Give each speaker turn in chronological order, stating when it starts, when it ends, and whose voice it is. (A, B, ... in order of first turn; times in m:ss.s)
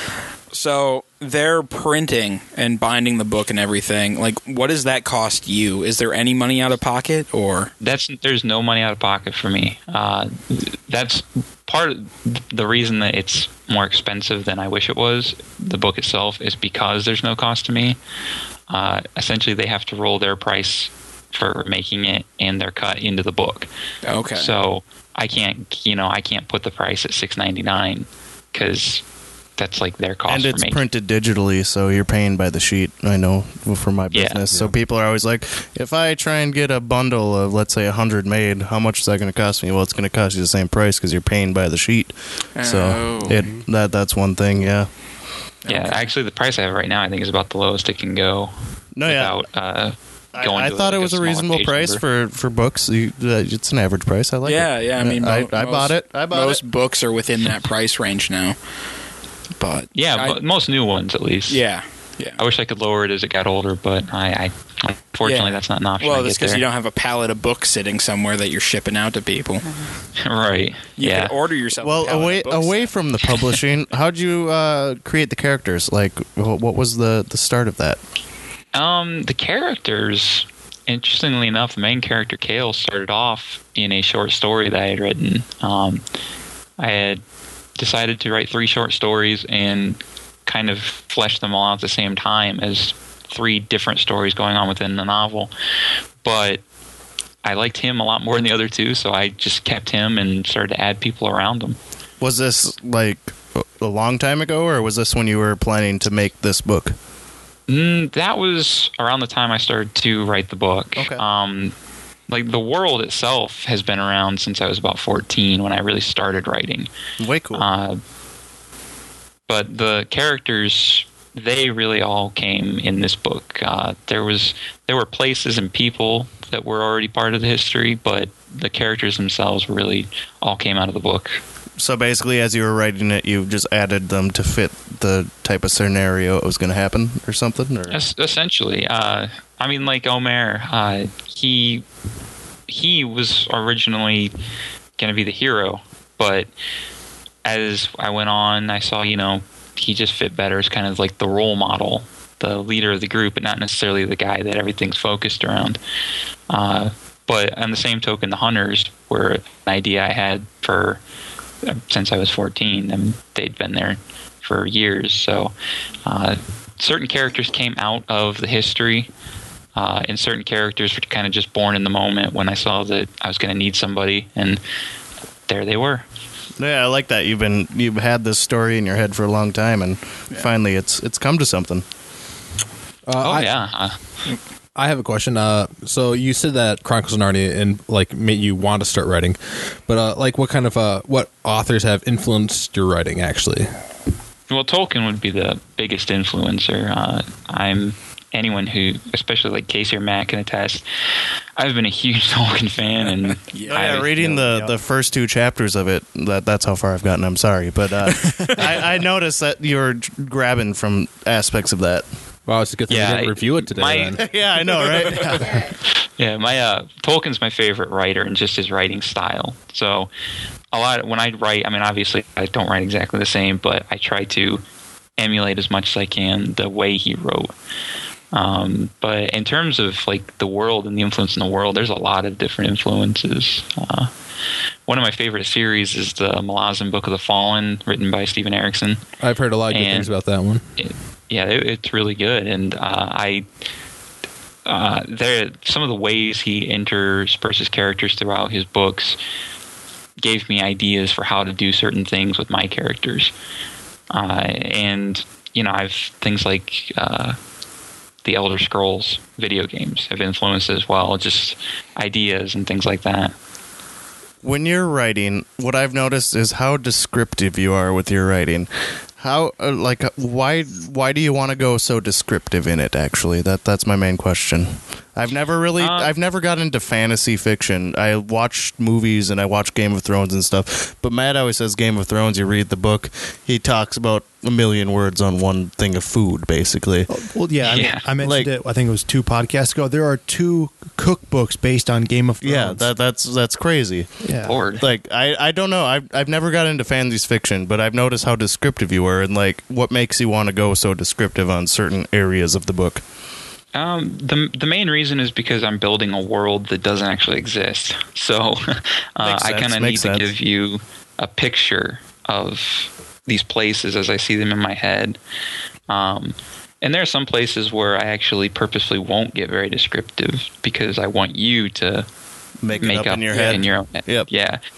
0:00.5-0:07.7 A
0:07.8-0:18.0 B
0:18.7-0:23.7 B
0:24.0-0:24.5 A
0:24.3-0:29.0 B
0:29.6-0:30.8 B
0:30.3-0:44.9 C
0:34.1-0:34.4 B
0:42.6-0:43.4 A
0:45.6-0:46.1 A
0:45.7-0:52.0 B
0:48.9-0:49.3 C
0:50.3-0:56.6 C
0:54.4-0:58.6 A
0:59.6-1:00.4 A
0:59.9-1:01.6 B
1:01.5-1:02.4 A
1:02.4-1:06.6 B
1:05.2-1:09.6 A
1:10.2-1:11.3 B
1:11.0-1:12.9 A
1:11.8-1:18.0 C
1:18.7-1:26.0 B
1:26.8-1:27.2 B
1:27.8-1:35.5 B
1:36.2-1:36.6 B
1:37.4-1:41.8 B
1:42.2-1:46.9 C
1:47.7-1:51.7 B
1:51.0-1:51.2 C
1:52.3-1:56.9 B
1:57.2-1:57.6 C
1:57.5-1:58.0 B
1:59.5-2:11.4 B
2:11.8-2:18.0 C
2:17.9-2:21.8 B
2:22.7-2:24.3 B
2:25.0-2:26.5 B
2:27.4-2:35.8 B
2:36.5-2:41.0 B
2:41.6-2:45.5 B
2:46.0-2:49.1 B
2:49.8-2:54.6 B
2:55.5-2:56.0 B
2:56.6-3:01.8 C
3:03.0-3:03.5 D
3:03.2-3:04.0 B
3:04.8-3:13.7 D
3:14.5-3:20.8 B
3:21.6-3:24.1 B
3:23.4-3:24.1 A
3:23.6-3:32.1 C
3:24.0-3:24.7 E
3:32.5-3:34.2 D
3:32.9-3:34.2 B
3:34.2-3:35.6 C
3:36.2-3:40.1 B
3:40.7-3:44.6 B
3:45.2-3:47.5 B
3:48.3-3:54.1 B
3:54.9-3:59.0 B
3:59.2-4:00.6 D
3:59.7-4:00.1 B
4:00.8-4:03.4 B
4:04.6-4:09.2 B
4:10.2-4:13.3 B
4:14.1-4:17.4 B
4:18.2-4:23.3 B
4:24.4-4:47.1 C
4:35.8-4:36.1 B
4:47.1-4:52.8 E
4:47.6-4:48.1 B
4:48.2-4:48.5 C
4:52.4-5:03.0 C
4:54.2-4:54.6 E
4:54.4-4:54.8 B
5:03.7-5:15.2 B
5:09.2-5:10.3 C
5:15.9-5:22.1 B
5:22.6-5:24.3 C
5:22.8-5:24.6 B